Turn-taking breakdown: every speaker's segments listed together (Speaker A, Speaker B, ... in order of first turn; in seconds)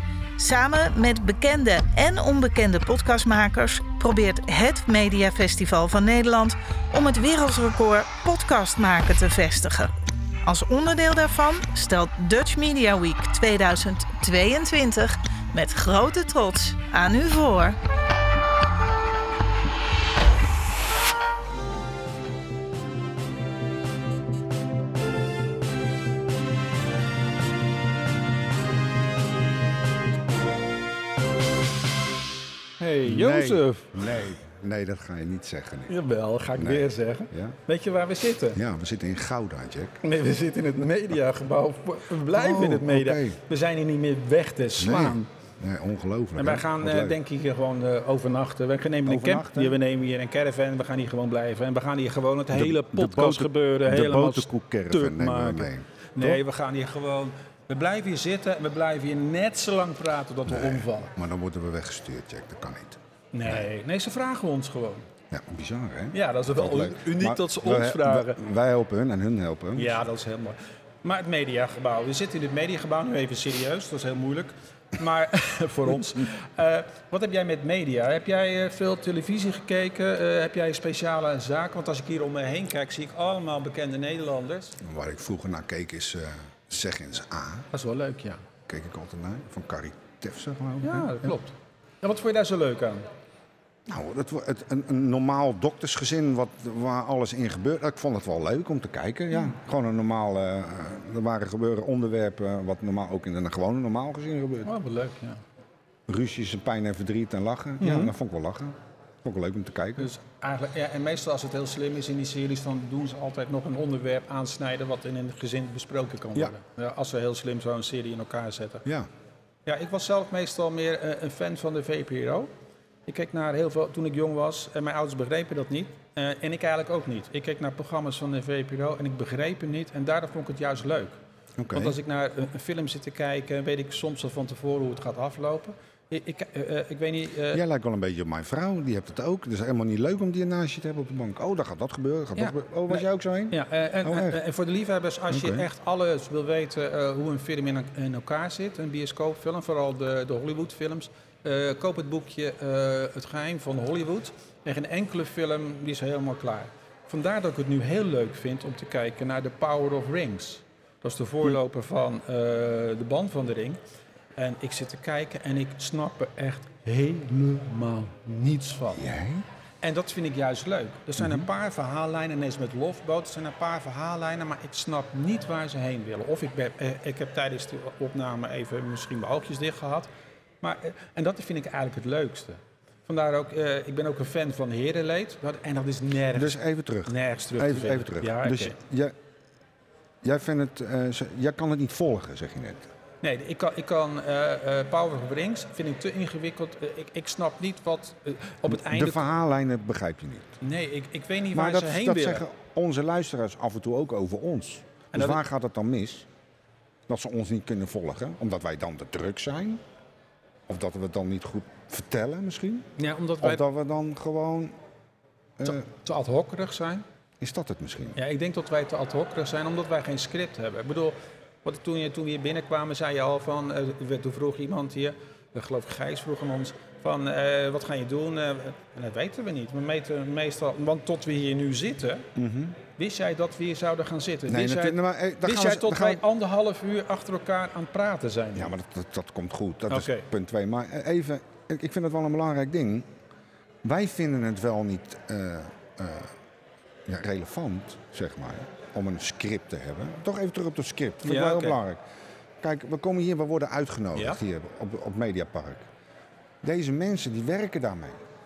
Speaker A: 0.4-9.9, 10.4-17.8
Speaker B: 32.8-34.0, 35.9-38.6, 40.0-45.3, 46.4-61.1, 63.3-65.1, 66.1-68.4, 69.7-84.8, 87.7-88.4, 90.8-93.1, 104.6-105.4, 107.8-108.1, 110.0-118.9, 119.7-122.5, 123.1-131.2, 131.7-137.6, 142.4-163.8, 164.4-169.1, 169.8-180.1, 180.6-188.8, 193.2-199.2, 200.6-202.4, 205.1-205.4, 213.0-213.6, 215.7-217.0, 218.2-232.3, 232.9-238.7, 239.9-240.3, 251.2-251.8
Speaker C: 33.0-36.0, 36.5-37.6, 38.5-40.0, 42.3-43.4, 44.8-47.2, 49.1-49.8, 52.5-56.4, 60.5-63.7, 65.3-70.0, 84.8-87.7, 88.7-91.3, 93.9-104.7, 106.1-110.1, 131.6-132.0, 137.5-144.4, 145.3-145.7, 168.9-169.4, 171.2-171.5, 186.3-189.1, 190.2-192.9, 198.7-200.6, 201.5-206.3, 207.1-209.8, 210.7-212.9, 213.4-214.7, 217.4-218.2, 232.4-232.8, 234.5-236.2, 238.6-243.1, 243.8-246.3, 247.1-252.0, 252.6-255.9, 256.6-258.2